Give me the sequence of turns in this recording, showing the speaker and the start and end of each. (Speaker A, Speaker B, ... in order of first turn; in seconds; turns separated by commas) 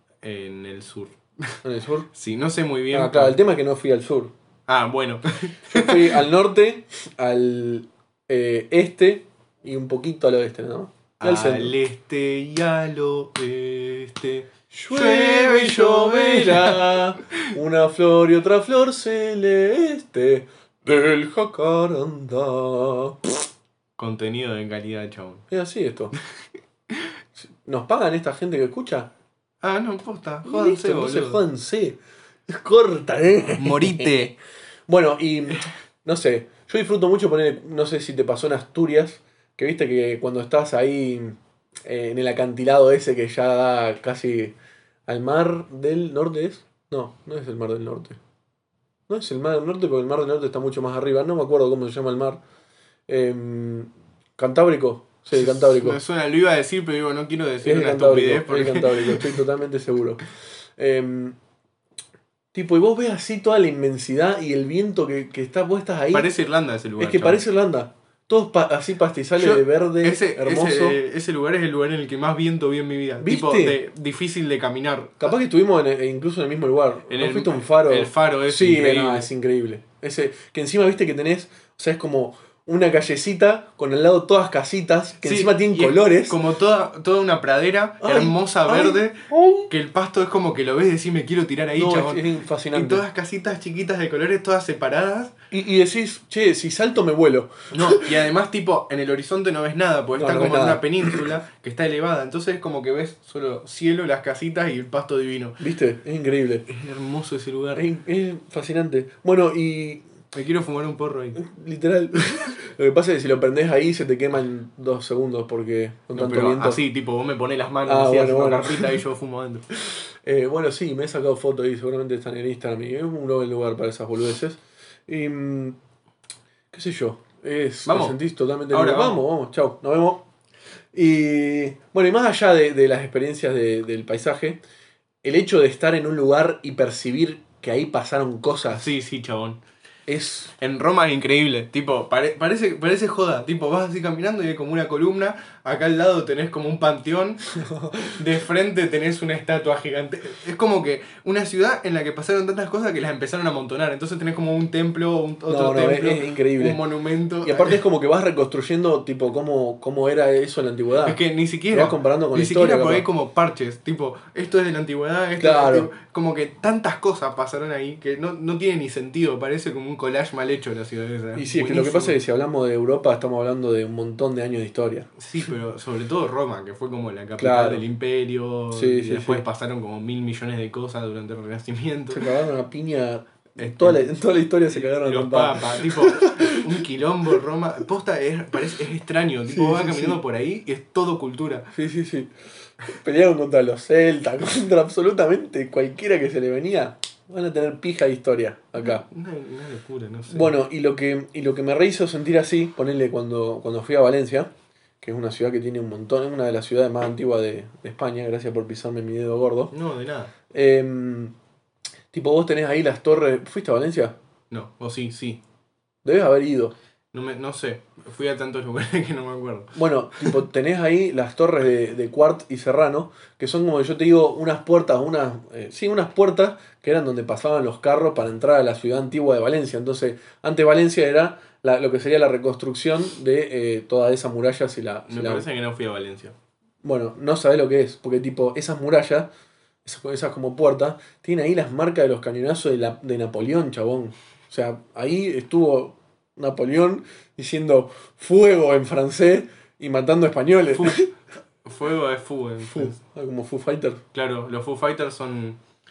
Speaker A: 0.2-1.6, Speaker B: 1.6-2.1, Speaker A: 2.1-3.4, Speaker B: 2.9-4.3, Speaker A: 4.7-6.2, Speaker B: 5.7-11.8, Speaker A: 11.2-17.5, Speaker B: 14.7-23.4, Speaker A: 24.0-25.4, Speaker B: 25.5-26.1, Speaker B: 27.4-29.1, Speaker A: 29.6-31.4, Speaker B: 30.4-34.1, Speaker A: 33.6-34.3, Speaker B: 34.9-44.5, Speaker B: 45.1-48.2, Speaker B: 49.1-52.4, Speaker B: 53.1-56.0, Speaker A: 55.3-59.3, Speaker B: 57.6-60.2, Speaker B: 60.8-61.4, Speaker B: 62.5-66.3, Speaker A: 66.1-67.4, Speaker B: 67.0-71.0, Speaker A: 69.4-75.2, Speaker B: 73.2-73.8, Speaker B: 75.2-86.4, Speaker A: 77.1-79.3, Speaker A: 85.2-95.3, Speaker B: 88.0-89.7, Speaker B: 91.8-93.0, Speaker B: 95.5-98.1, Speaker A: 97.7-105.6, Speaker B: 100.1-101.2, Speaker B: 105.6-106.7, Speaker A: 106.7-107.9, Speaker B: 107.8-110.0, Speaker A: 110.3-111.4, Speaker B: 111.4-116.8, Speaker A: 116.1-119.7, Speaker B: 117.8-119.0, Speaker B: 119.8-125.8, Speaker B: 126.7-130.2, Speaker A: 127.9-128.2, Speaker A: 128.7-129.2, Speaker B: 130.9-134.6, Speaker B: 135.2-138.9, Speaker A: 138.7-139.6, Speaker B: 140.1-140.5, Speaker A: 140.6-157.8, Speaker B: 147.5-148.2, Speaker B: 155.5-156.8, Speaker B: 157.4-161.2, Speaker A: 161.0-172.2, Speaker B: 161.7-163.1, Speaker B: 165.4-165.9, Speaker B: 171.3-175.1, Speaker A: 175.2-182.3, Speaker B: 177.4-177.8, Speaker B: 178.7-179.4, Speaker B: 182.1-186.8, Speaker A: 183.6-184.0, Speaker A: 184.7-191.7, Speaker B: 189.5-190.2, Speaker B: 191.7-192.3, Speaker B: 192.8-199.1, Speaker A: 198.8-200.5, Speaker B: 200.3-204.5, Speaker B: 205.0-209.7, Speaker A: 209.7-210.3, Speaker B: 210.5-211.3, Speaker B: 212.1-214.2, Speaker A: 214.5-215.4, Speaker B: 216.0-216.7, Speaker A: 217.1-220.3, Speaker B: 219.7-235.5, Speaker A: 235.1-236.3, Speaker B: 236.8-239.3, Speaker B: 239.8-251.1, Speaker A: 250.7-251.1, Speaker A: 251.6-253.0, Speaker B: 252.6-254.0, Speaker A: 254.1-255.6